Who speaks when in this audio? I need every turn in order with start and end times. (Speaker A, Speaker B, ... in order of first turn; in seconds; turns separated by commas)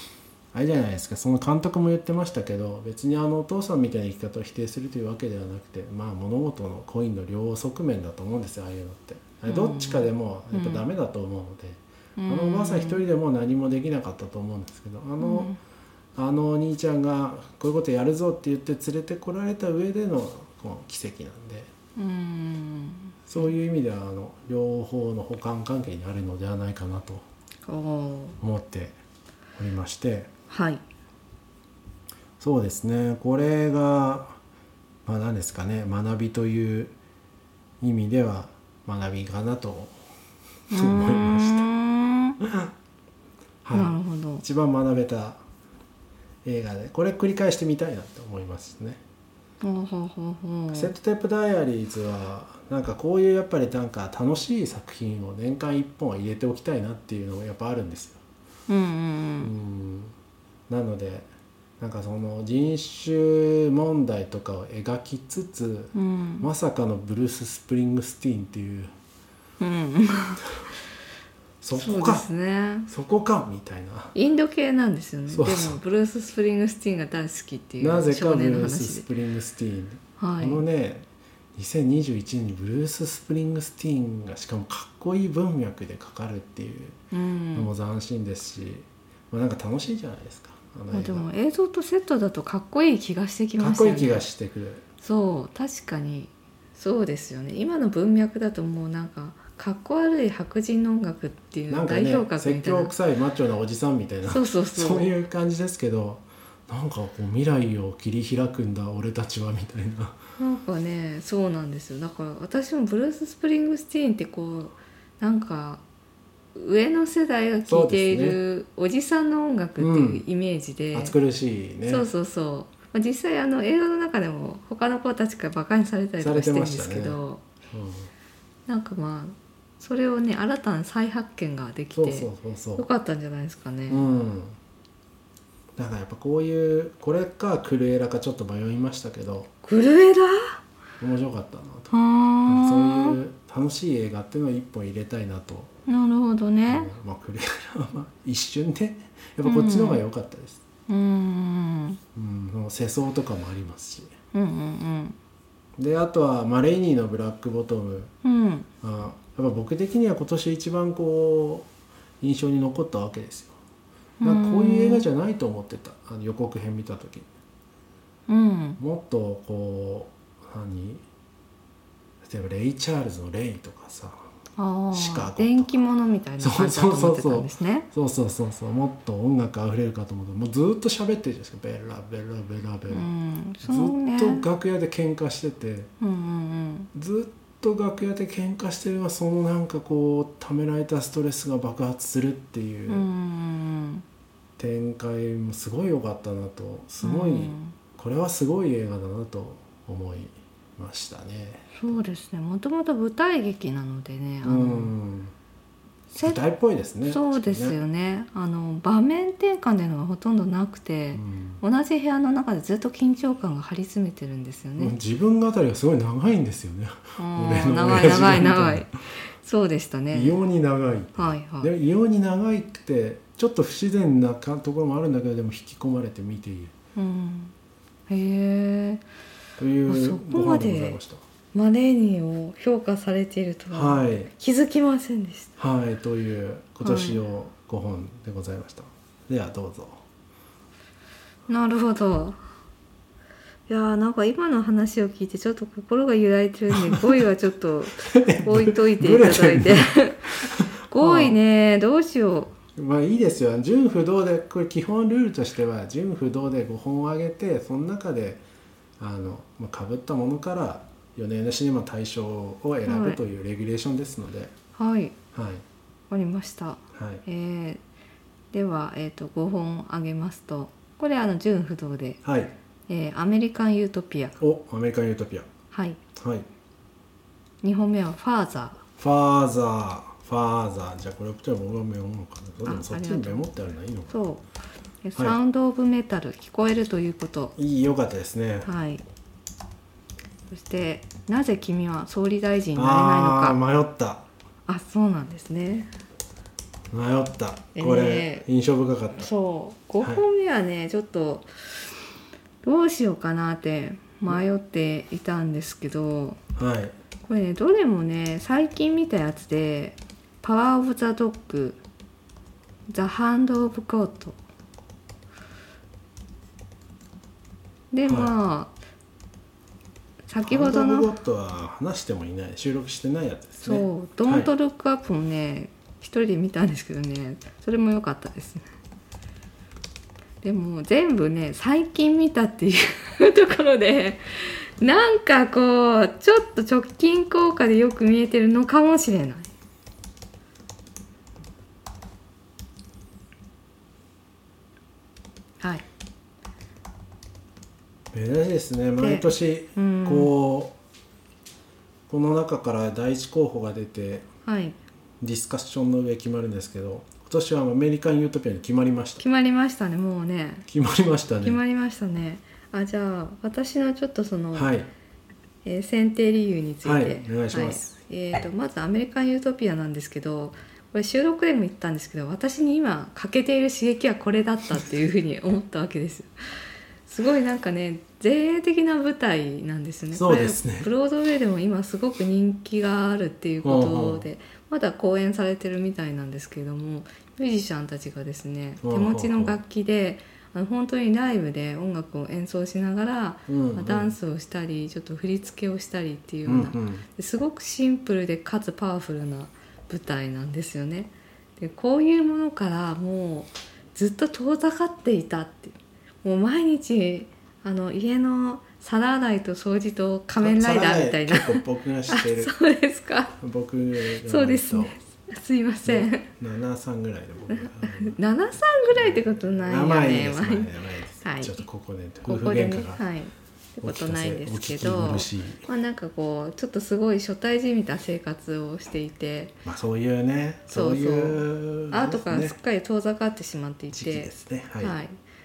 Speaker A: 0.5-15.5, Speaker B: 9.5-10.8, Speaker B: 12.2-13.0, Speaker B: 15.2-15.6, Speaker A: 16.1-21.7, Speaker B: 21.9-23.1, Speaker A: 23.3-27.2, Speaker B: 27.6-28.4, Speaker A: 28.4-28.9, Speaker A: 29.6-30.3, Speaker B: 30.5-30.8, Speaker A: 32.4-34.4, Speaker A: 35.0-36.9, Speaker A: 37.8-39.9, Speaker B: 40.7-42.4, Speaker A: 40.7-41.6, Speaker A: 42.4-42.7, Speaker A: 43.6-45.4, Speaker B: 43.7-44.4, Speaker A: 46.4-49.0, Speaker B: 49.6-50.9, Speaker A: 50.7-58.2, Speaker B: 58.7-59.5, Speaker A: 59.4-60.1, Speaker A: 60.7-61.3, Speaker A: 61.8-68.9, Speaker B: 65.9-66.5, Speaker B: 69.6-70.4, Speaker A: 71.6-72.3, Speaker B: 71.7-72.9, Speaker A: 72.9-74.1, Speaker B: 74.1-79.0, Speaker A: 75.3-75.8, Speaker A: 77.8-87.0, Speaker B: 80.2-80.6, Speaker B: 87.1-87.7, Speaker A: 87.5-91.3, Speaker B: 90.9-94.2, Speaker A: 93.6-94.8, Speaker B: 95.0-102.9, Speaker A: 101.7-110.2, Speaker B: 104.3-105.1, Speaker B: 110.4-115.8, Speaker B: 116.5-121.1, Speaker A: 117.7-118.4, Speaker A: 119.8-120.2, Speaker A: 120.9-122.1, Speaker B: 121.9-127.4, Speaker A: 126.2-127.2, Speaker A: 127.7-128.1, Speaker B: 128.7-134.0, Speaker A: 131.9-132.9, Speaker A: 133.9-134.6, Speaker A: 135.8-139.5, Speaker B: 139.6-140.6, Speaker A: 141.0-141.9, Speaker B: 141.9-143.2, Speaker A: 142.4-145.7, Speaker B: 145.9-146.9, Speaker A: 146.7-150.6, Speaker B: 149.4-150.0, Speaker B: 150.9-152.0, Speaker A: 152.1-154.1, Speaker B: 154.3-155.2, Speaker A: 155.8-158.1, Speaker B: 158.2-158.7, Speaker A: 158.8-161.7, Speaker A: 162.2-163.6, Speaker B: 164.2-165.0, Speaker A: 164.2-167.3, Speaker B: 168.3-168.8, Speaker A: 168.8-171.0, Speaker A: 172.2-174.2, Speaker B: 174.6-177.9, Speaker A: 174.9-175.7, Speaker A: 176.4-183.1, Speaker B: 182.9-184.4, Speaker A: 183.6-185.9, Speaker B: 186.0-186.9, Speaker A: 186.9-193.1, Speaker B: 192.9-194.0, Speaker A: 194.6-201.9, Speaker B: 197.0-197.7, Speaker B: 201.7-204.9, Speaker A: 204.4-205.3, Speaker B: 206.1-206.4, Speaker A: 206.2-207.8, Speaker B: 207.1-214.9, Speaker A: 211.1-211.6, Speaker A: 214.8-218.9, Speaker B: 217.2-220.3, Speaker A: 220.1-226.7, Speaker B: 221.2-221.7, Speaker B: 226.9-227.5, Speaker B: 228.1-229.0, Speaker A: 229.6-231.2, Speaker B: 229.9-231.0, Speaker B: 231.5-235.5, Speaker A: 233.7-234.3, Speaker A: 235.6-240.0, Speaker B: 236.8-237.2, Speaker B: 241.5-242.4, Speaker B: 243.7-252.5, Speaker A: 246.7-247.0, Speaker A: 248.0-251.4, Speaker A: 252.8-258.4, Speaker A: 259.0-264.5, Speaker B: 262.8-263.2, Speaker B: 264.7-265.1, Speaker A: 265.3-265.6, Speaker B: 266.1-267.8, Speaker A: 266.9-267.2, Speaker B: 268.5-272.2, Speaker A: 272.2-272.5, Speaker B: 272.9-274.3, Speaker A: 274.4-275.5, Speaker B: 275.7-276.0, Speaker A: 276.1-276.4, Speaker B: 277.6-278.8, Speaker A: 279.0-284.1, Speaker B: 282.6-283.4, Speaker B: 284.1-284.4, Speaker B: 285.0-287.5, Speaker A: 287.6-288.7, Speaker B: 288.6-289.0, Speaker B: 290.5-293.6, Speaker A: 292.8-294.2, Speaker B: 294.7-295.9, Speaker A: 296.9-299.3, Speaker B: 297.7-298.4, Speaker B: 299.2-301.5, Speaker B: 302.6-306.4, Speaker A: 306.6-306.9, Speaker B: 307.2-311.8, Speaker B: 312.9-314.4, Speaker B: 317.9-318.7, Speaker A: 318.1-318.3, Speaker B: 320.3-321.1, Speaker A: 320.4-324.5, Speaker B: 323.6-328.7, Speaker B: 330.4-339.5, Speaker B: 345.6-345.8, Speaker A: 348.1-350.7, Speaker B: 349.0-350.3, Speaker A: 352.1-354.3, Speaker B: 354.4-354.8, Speaker A: 355.2-359.2, Speaker B: 359.2-360.6, Speaker A: 360.7-361.6, Speaker B: 361.4-364.7, Speaker A: 364.5-364.9, Speaker B: 365.6-376.3, Speaker A: 366.8-367.9, Speaker B: 377.1-413.3, Speaker A: 380.1-380.9, Speaker A: 383.6-384.2, Speaker A: 388.8-389.6, Speaker A: 393.5-394.1, Speaker A: 396.4-397.1, Speaker A: 410.4-412.5, Speaker A: 413.4-415.0, Speaker B: 414.2-416.3, Speaker A: 415.9-418.2, Speaker B: 417.5-420.7, Speaker A: 418.9-423.0, Speaker B: 421.2-421.6, Speaker B: 422.2-429.6, Speaker A: 423.8-425.6, Speaker A: 429.6-432.6, Speaker B: 430.7-435.1, Speaker A: 433.9-435.0